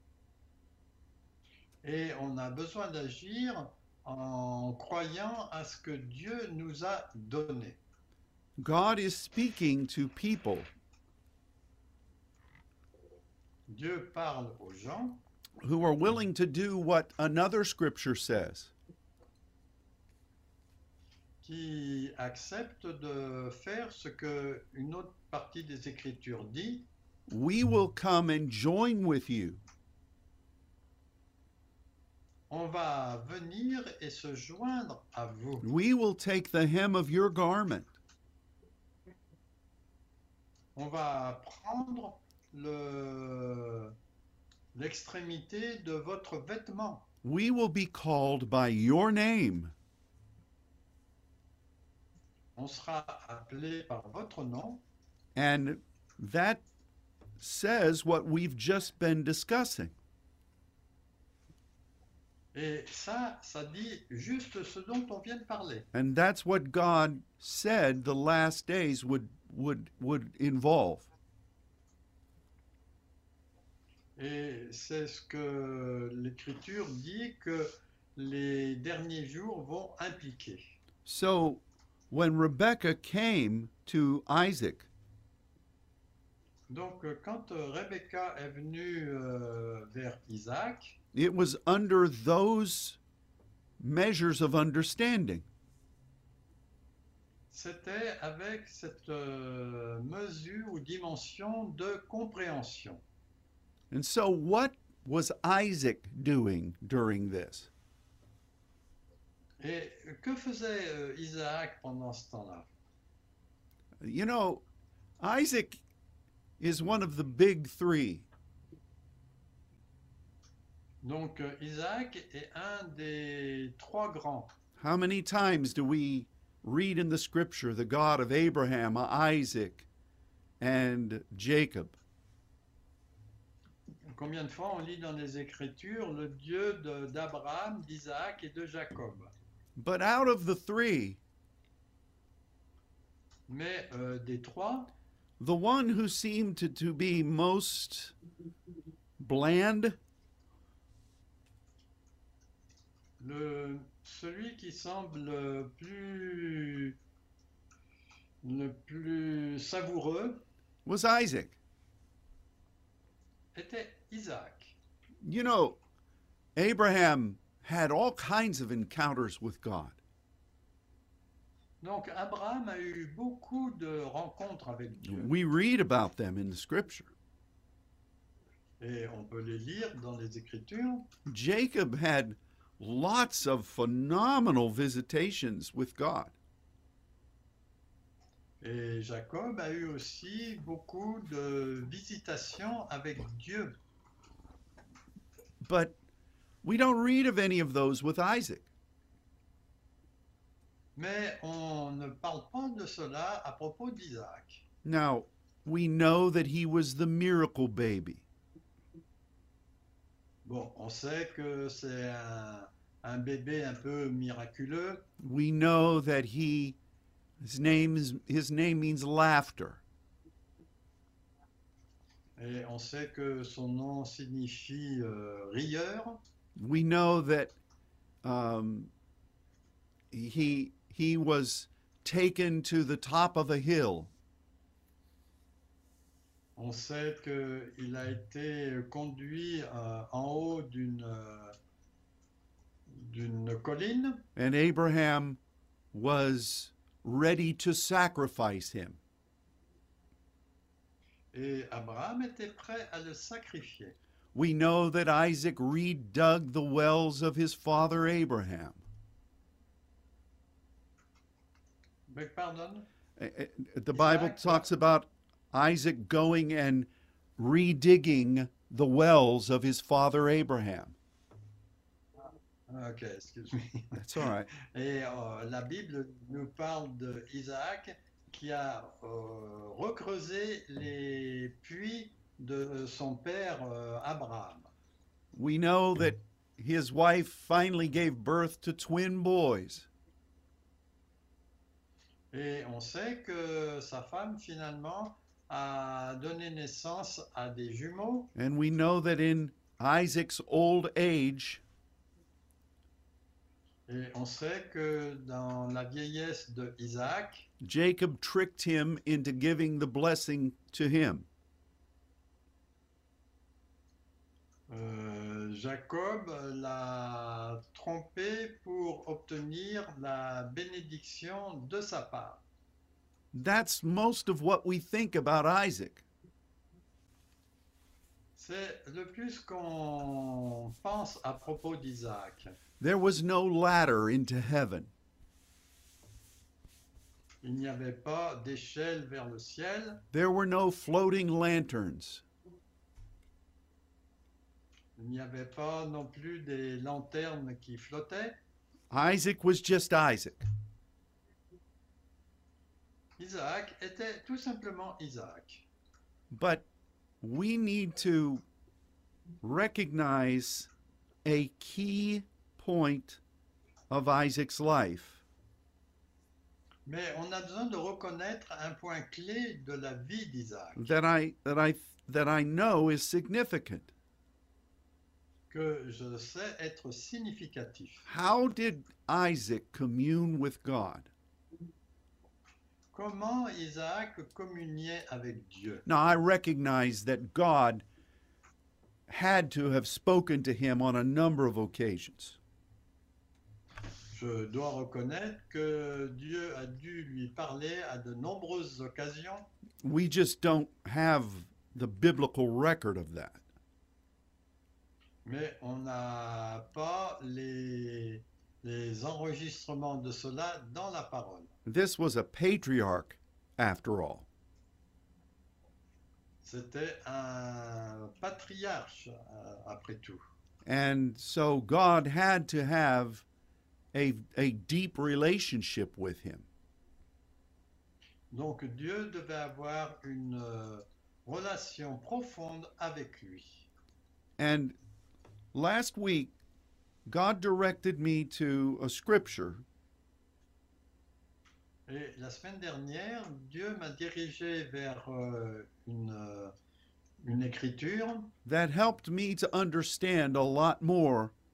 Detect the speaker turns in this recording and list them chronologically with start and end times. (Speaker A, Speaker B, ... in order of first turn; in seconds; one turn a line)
Speaker A: 1.8-7.8
Speaker B: 8.6-10.7
Speaker A: 13.7-15.2
Speaker B: 15.6-18.7
Speaker A: 21.4-26.9
Speaker B: 27.3-29.6
Speaker A: 32.5-35.7
Speaker B: 35.6-38.0
Speaker A: 40.8-44.0
Speaker A: 44.8-47.1
Speaker B: 47.2-49.7
Speaker A: 52.6-54.8
Speaker B: 55.4-56.6
Speaker B: 57.4-59.9
Speaker A: 62.5-65.9
Speaker B: 65.9-71.1
Speaker A: 74.2-80.7
Speaker B: 81.0-84.9
Speaker A: 86.7-91.0
Speaker B: 91.1-93.0
Speaker B: 93.8-95.5
Speaker A: 97.5-103.0
Speaker B: 103.9-107.7
Speaker A: 109.6-112.7
Speaker B: 114.0-114.7
Speaker B: 115.2-115.8
Speaker B: 116.6-118.3
Speaker A: 121.0-124.5
Speaker B: 124.8-129.9
Speaker B: 130.6-132.0
Speaker A: 134.1-139.3
Speaker B: 139.8-141.2
Speaker A: 143.5-144.9
Speaker B: 145.4-148.2
Speaker B: 149.2-150.0
Speaker A: 153.2-157.0
Speaker A: 158.4-160.4
Speaker B: 160.8-161.6
Speaker A: 163.6-164.8
Speaker B: 165.2-165.8
Speaker B: 166.6-170.0
Speaker A: 171.8-175.3
Speaker B: 175.0-177.1
Speaker A: 178.8-181.1
Speaker B: 181.3-186.3
Speaker A: 188.6-193.8
Speaker B: 195.6-196.0
Speaker B: 196.6-198.7
Speaker A: 201.0-204.6
Speaker B: 204.8-208.2
Speaker A: 210.4-215.1
Speaker B: 215.2-216.8
Speaker B: 217.4-219.8
Speaker A: 222.4-226.2
Speaker B: 226.6-227.6
Speaker B: 228.2-228.9
Speaker B: 230.1-234.1
Speaker A: 236.6-241.6
Speaker A: 242.9-244.3
Speaker B: 244.4-245.4
Speaker B: 245.9-249.0
Speaker A: 251.3-254.0
Speaker B: 254.3-258.8
Speaker A: 262.1-262.9
Speaker B: 263.2-271.0
Speaker A: 263.9-264.7
Speaker A: 272.7-274.0
Speaker B: 273.9-274.5
Speaker A: 274.6-284.7
Speaker B: 285.3-289.9
Speaker A: 292.3-298.3
Speaker B: 298.4-301.6
Speaker A: 303.9-307.5
Speaker B: 307.6-311.3
Speaker A: 314.7-322.4
Speaker B: 323.3-326.0
Speaker A: 328.4-332.6
Speaker B: 332.8-334.9
Speaker A: 337.4-340.1
Speaker B: 340.1-342.2
Speaker A: 345.0-348.4
Speaker B: 348.9-350.4
Speaker A: 353.2-355.7
Speaker B: 356.3-356.7
Speaker B: 357.2-358.4
Speaker B: 359.4-360.7
Speaker B: 361.2-363.2
Speaker B: 363.9-365.2
Speaker A: 366.9-370.9
Speaker B: 370.8-373.9
Speaker A: 375.5-378.1
Speaker B: 378.1-381.1
Speaker A: 382.9-385.9
Speaker B: 385.9-387.9
Speaker B: 389.1-392.4
Speaker A: 394.1-399.5
Speaker B: 399.8-403.4
Speaker A: 405.2-411.5
Speaker B: 411.7-414.3
Speaker A: 416.4-420.2
Speaker B: 420.6-423.2
Speaker B: 423.9-426.5
Speaker A: 428.3-433.7
Speaker B: 434.4-434.8
Speaker B: 435.5-436.4
Speaker B: 437.1-439.6
Speaker A: 441.9-446.5
Speaker A: 447.2-448.4
Speaker B: 448.4-451.3